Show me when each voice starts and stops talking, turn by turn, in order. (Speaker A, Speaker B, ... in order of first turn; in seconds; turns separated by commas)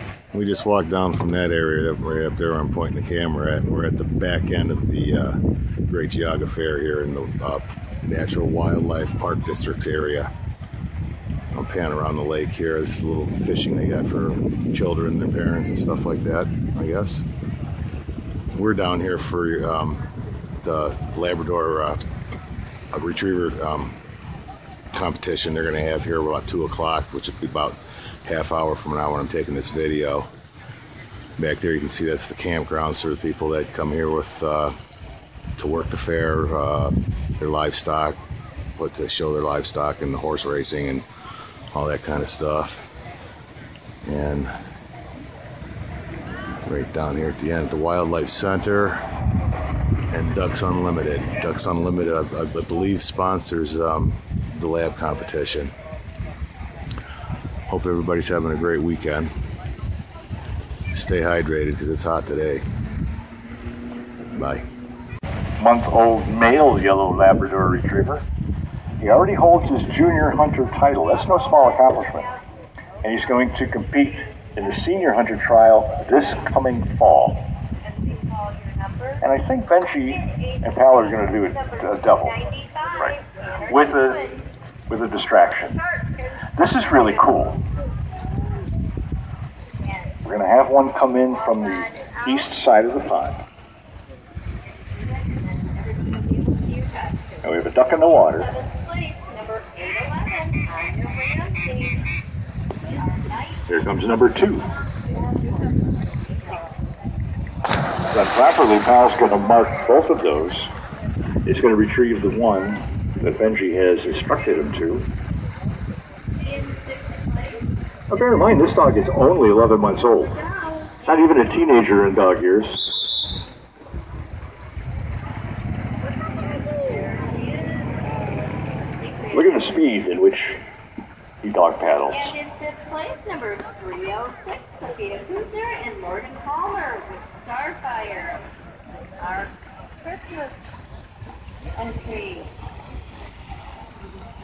Speaker A: 0.3-10.3, Speaker A: 11.5-17.2, Speaker A: 18.5-20.0, Speaker A: 20.6-22.0, Speaker A: 22.9-23.9, Speaker A: 24.9-30.3, Speaker A: 31.4-34.7, Speaker A: 35.6-38.2, Speaker A: 38.8-41.0, Speaker A: 41.7-42.9, Speaker A: 44.0-44.5, Speaker A: 46.7-49.0, Speaker A: 50.1-55.7, Speaker A: 57.7-59.3, Speaker A: 60.9-62.6, Speaker A: 64.3-64.7, Speaker B: 65.6-68.2, Speaker B: 69.0-72.3, Speaker C: 71.3-72.4, Speaker B: 73.0-77.5, Speaker C: 77.8-79.3, Speaker B: 79.2-82.3, Speaker C: 80.2-84.5, Speaker B: 83.7-84.2, Speaker B: 84.9-85.8, Speaker C: 85.7-87.3, Speaker B: 86.6-87.6, Speaker B: 90.2-93.4, Speaker C: 91.4-92.5, Speaker C: 94.7-97.4, Speaker B: 97.4-98.5, Speaker C: 98.1-102.1, Speaker C: 102.9-105.9, Speaker B: 103.7-104.7, Speaker B: 108.1-110.7, Speaker B: 111.5-115.1, Speaker C: 116.4-117.7, Speaker B: 118.1-120.3, Speaker C: 120.2-121.4, Speaker B: 121.1-122.8, Speaker C: 126.1-128.3, Speaker C: 129.0-129.8, Speaker B: 129.3-130.6, Speaker B: 131.4-132.3, Speaker C: 132.1-138.4, Speaker C: 139.2-140.6, Speaker C: 141.8-142.5